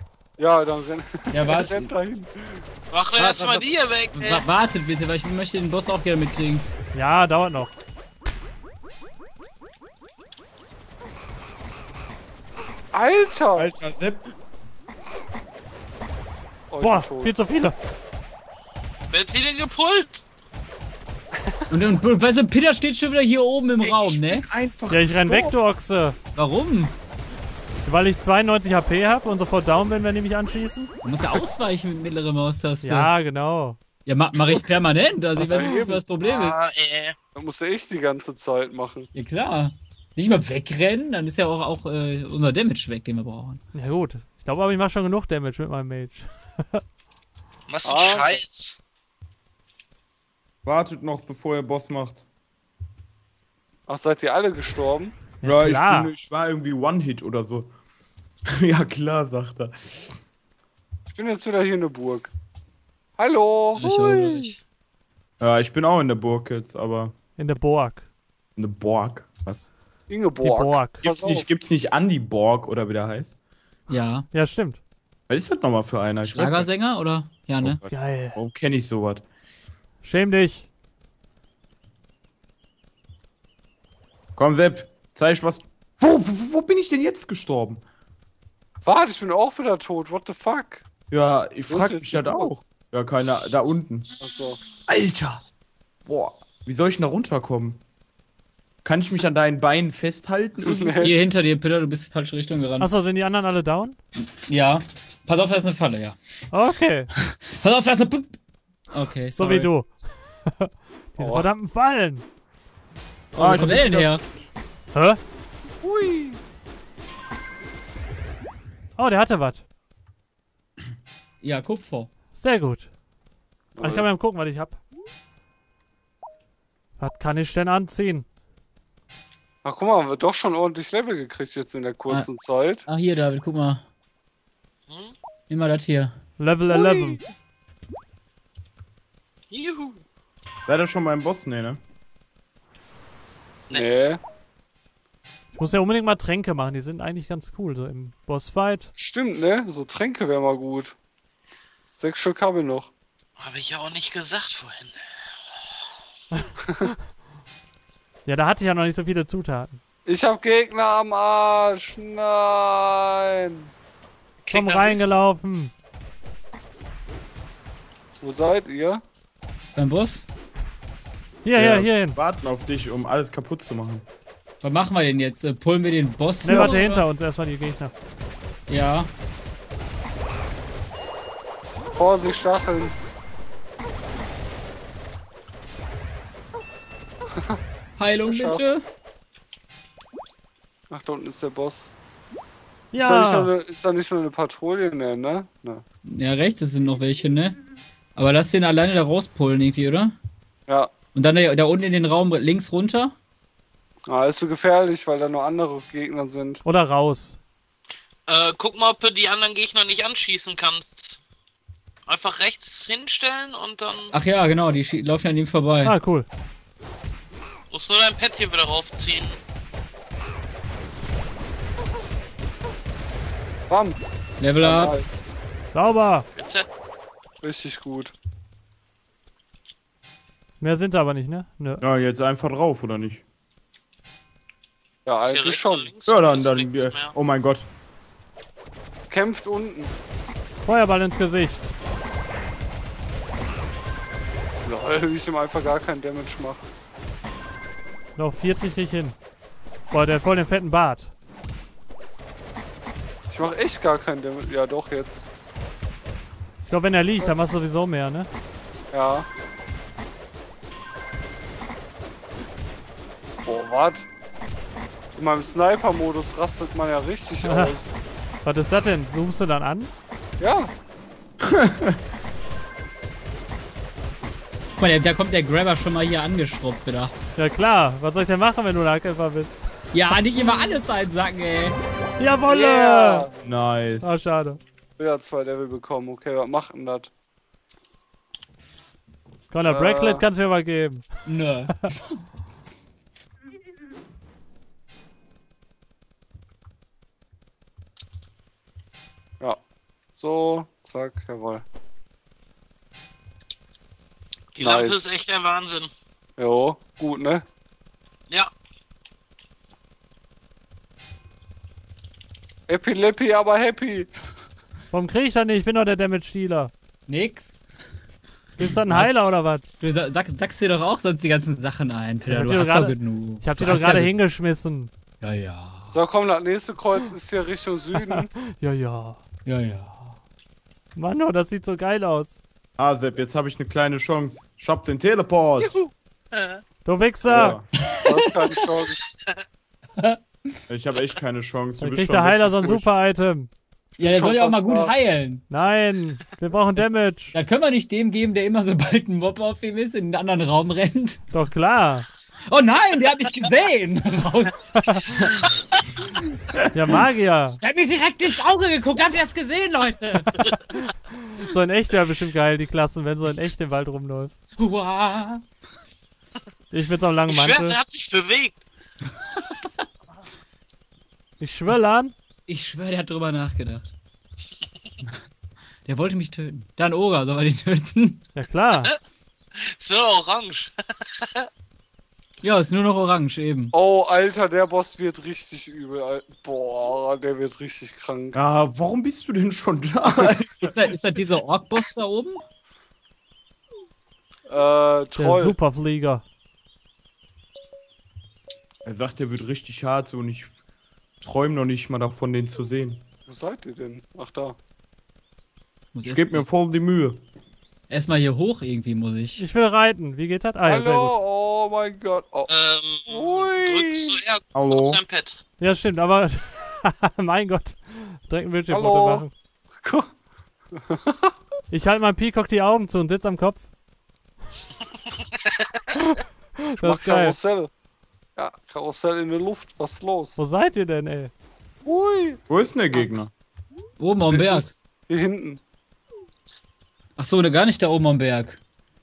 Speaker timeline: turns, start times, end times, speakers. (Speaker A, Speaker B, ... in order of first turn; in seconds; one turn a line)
Speaker A: 0.4-2.6
Speaker B: 1.3-1.9
Speaker C: 2.9-4.5
Speaker B: 3.2-6.7
Speaker D: 6.9-7.7
Speaker A: 12.9-13.7
Speaker E: 13.6-14.3
Speaker A: 16.7-17.3
Speaker D: 16.8-17.7
Speaker C: 19.1-20.2
Speaker B: 21.7-24.5
Speaker E: 23.8-25.6
Speaker D: 24.9-26.2
Speaker B: 26.4-26.9
Speaker D: 27.9-30.9
Speaker B: 31.0-33.1
Speaker D: 32.8-33.8
Speaker B: 34.0-36.6
Speaker A: 35.5-36.0
Speaker C: 36.2-37.2
Speaker A: 37.4-39.1
Speaker B: 39.1-43.6
Speaker D: 43.7-46.8
Speaker C: 47.7-48.8
Speaker A: 47.8-48.4
Speaker E: 50.6-52.2
Speaker A: 53.9-55.2
Speaker D: 55.4-56.1
Speaker E: 55.4-57.7
Speaker E: 58.5-60.1
Speaker A: 61.1-62.3
Speaker A: 63.2-64.5
Speaker B: 63.8-64.6
Speaker E: 65.4-67.2
Speaker D: 67.4-68.0
Speaker E: 68.6-69.7
Speaker A: 70.1-71.5
Speaker D: 70.4-71.0
Speaker E: 71.0-73.4
Speaker B: 73.9-74.3
Speaker D: 74.3-74.8
Speaker E: 75.3-76.7
Speaker B: 76.2-77.8
Speaker E: 77.6-79.2
Speaker D: 77.9-78.4
Speaker D: 80.0-80.7
Speaker E: 84.4-87.8
Speaker A: 88.8-90.8
Speaker E: 91.1-94.1
Speaker A: 91.7-92.5
Speaker A: 94.2-94.6
Speaker E: 94.9-95.4
Speaker E: 96.1-97.8
Speaker E: 98.8-101.1
Speaker A: 100.6-101.1
Speaker B: 101.0-102.9
Speaker D: 102.8-104.0
Speaker B: 104.2-106.2
Speaker D: 106.5-107.1
Speaker B: 107.4-108.4
Speaker B: 108.9-109.7
Speaker D: 109.4-112.2
Speaker A: 111.2-111.5
Speaker E: 113.3-114.3
Speaker D: 113.4-113.9
Speaker B: 113.4-114.2
Speaker D: 114.9-115.2
Speaker A: 115.8-116.4
Speaker D: 119.0-119.6
Speaker B: 121.4-122.1
Speaker D: 122.3-122.9
Speaker A: 123.8-124.1
Speaker D: 123.8-124.8
Speaker D: 127.0-128.3
Speaker A: 129.6-132.9
Speaker B: 132.9-133.8
Speaker C: 134.9-135.2
Speaker B: 135.5-136.1
Speaker D: 136.4-137.2
Speaker A: 136.7-137.1
Speaker C: 139.5-140.0
Speaker E: 140.7-141.8
Speaker A: 143.7-144.2
Speaker D: 145.6-148.9
Speaker A: 149.0-150.9
Speaker A: 152.0-152.9
Speaker C: 153.4-155.0
Speaker D: 156.3-156.9
Speaker D: 158.2-159.8
Speaker A: 160.1-163.7
Speaker C: 164.4-165.1
Speaker D: 164.5-165.7
Speaker A: 168.2-169.0
Speaker B: 169.8-170.2
Speaker D: 171.4-172.2
Speaker E: 171.5-174.1
Speaker B: 174.6-177.1
Speaker D: 176.4-177.9
Speaker B: 178.7-179.1
Speaker A: 181.9-182.9
Speaker B: 188.0-188.8
Speaker A: 188.3-188.7
Speaker A: 190.9-191.9
Speaker D: 192.9-193.5
Speaker A: 193.0-195.8
Speaker B: 196.1-197.6
Speaker B: 198.2-200.2
Speaker B: 201.2-203.1
Speaker A: 204.1-206.6
Speaker D: 206.7-207.4
Speaker C: 208.3-211.2
Speaker C: 212.1-214.1
Speaker B: 214.1-216.0
Speaker D: 215.8-216.3
Speaker C: 217.7-219.4
Speaker A: 223.7-224.0
Speaker B: 224.4-225.0
Speaker A: 224.6-225.3
Speaker D: 225.7-226.3
Speaker C: 226.3-226.7
Speaker A: 227.4-228.1
Speaker D: 230.6-231.8
Speaker E: 231.8-233.2
Speaker A: 235.1-235.9
Speaker C: 235.2-237.2
Speaker E: 236.1-237.7
Speaker A: 239.1-239.9
Speaker D: 240.6-241.7
Speaker A: 244.6-246.7
Speaker D: 248.2-249.2
Speaker D: 249.9-251.1
Speaker A: 253.3-255.3
Speaker D: 256.7-258.3
Speaker A: 258.9-259.3
Speaker A: 263.4-264.1
Speaker A: 265.2-268.0
Speaker D: 267.4-267.8
Speaker D: 268.4-269.9
Speaker A: 270.4-270.7
Speaker E: 271.4-272.0
Speaker B: 274.8-277.1
Speaker D: 277.4-279.6
Speaker B: 279.9-281.8
Speaker D: 282.2-283.3
Speaker A: 282.5-283.3
Speaker E: 283.4-284.2
Speaker D: 284.0-284.6
Speaker A: 285.0-287.1
Speaker D: 289.5-291.2
Speaker A: 289.7-290.3
Speaker B: 291.3-292.2
Speaker A: 300.1-301.6
Speaker C: 304.6-305.9
Speaker A: 304.6-305.2
Speaker A: 306.4-307.4
Speaker A: 312.7-314.1
Speaker D: 314.9-316.7
Speaker B: 317.1-317.6
Speaker D: 318.6-319.6
Speaker B: 318.8-319.1
Speaker B: 319.8-324.2
Speaker D: 322.3-324.9
Speaker B: 325.2-326.0
Speaker A: 325.9-328.3
Speaker D: 328.0-329.2
Speaker B: 329.5-330.2
Speaker D: 331.0-332.4
Speaker E: 332.8-335.8
Speaker C: 335.6-336.6
Speaker D: 336.9-337.6
Speaker E: 337.2-337.6
Speaker B: 337.8-338.5
Speaker A: 338.1-339.1
Speaker B: 340.0-340.5
Speaker E: 340.7-342.9
Speaker D: 341.8-343.5
Speaker B: 344.0-345.4
Speaker A: 344.0-344.9
Speaker D: 345.5-347.3
Speaker B: 347.3-351.2
Speaker D: 351.3-352.1
Speaker B: 352.5-354.7
Speaker D: 354.8-355.3
Speaker D: 356.7-357.6
Speaker B: 357.6-360.4
Speaker D: 360.5-364.4
Speaker B: 364.6-365.4
Speaker D: 366.7-367.8
Speaker C: 367.3-368.6
Speaker B: 369.2-369.6
Speaker D: 371.4-372.1
Speaker B: 372.5-373.9
Speaker B: 375.9-378.2
Speaker D: 378.4-378.9
Speaker C: 379.6-381.5
Speaker B: 382.4-383.7
Speaker A: 383.7-388.4
Speaker E: 388.3-390.7
Speaker B: 390.6-392.4
Speaker A: 394.5-395.6
Speaker D: 395.2-396.2
Speaker E: 398.9-400.5
Speaker E: 401.2-403.0
Speaker A: 403.3-404.6
Speaker B: 405.9-406.5
Speaker E: 406.1-407.2
Speaker B: 407.9-409.4
Speaker D: 409.4-411.2
Speaker A: 410.6-412.5
Speaker C: 412.5-415.4
Speaker A: 413.1-414.2
Speaker E: 414.6-415.0
Speaker D: 415.6-419.3
Speaker A: 418.7-419.3
Speaker A: 419.8-420.1
Speaker A: 420.8-421.3
Speaker D: 421.7-423.7
Speaker D: 425.9-427.4
Speaker A: 426.8-427.7
Speaker A: 428.4-430.4
Speaker D: 430.4-431.3
Speaker A: 431.9-432.4
Speaker E: 432.5-433.3
Speaker B: 434.0-434.8
Speaker A: 434.3-435.6
Speaker B: 437.2-438.6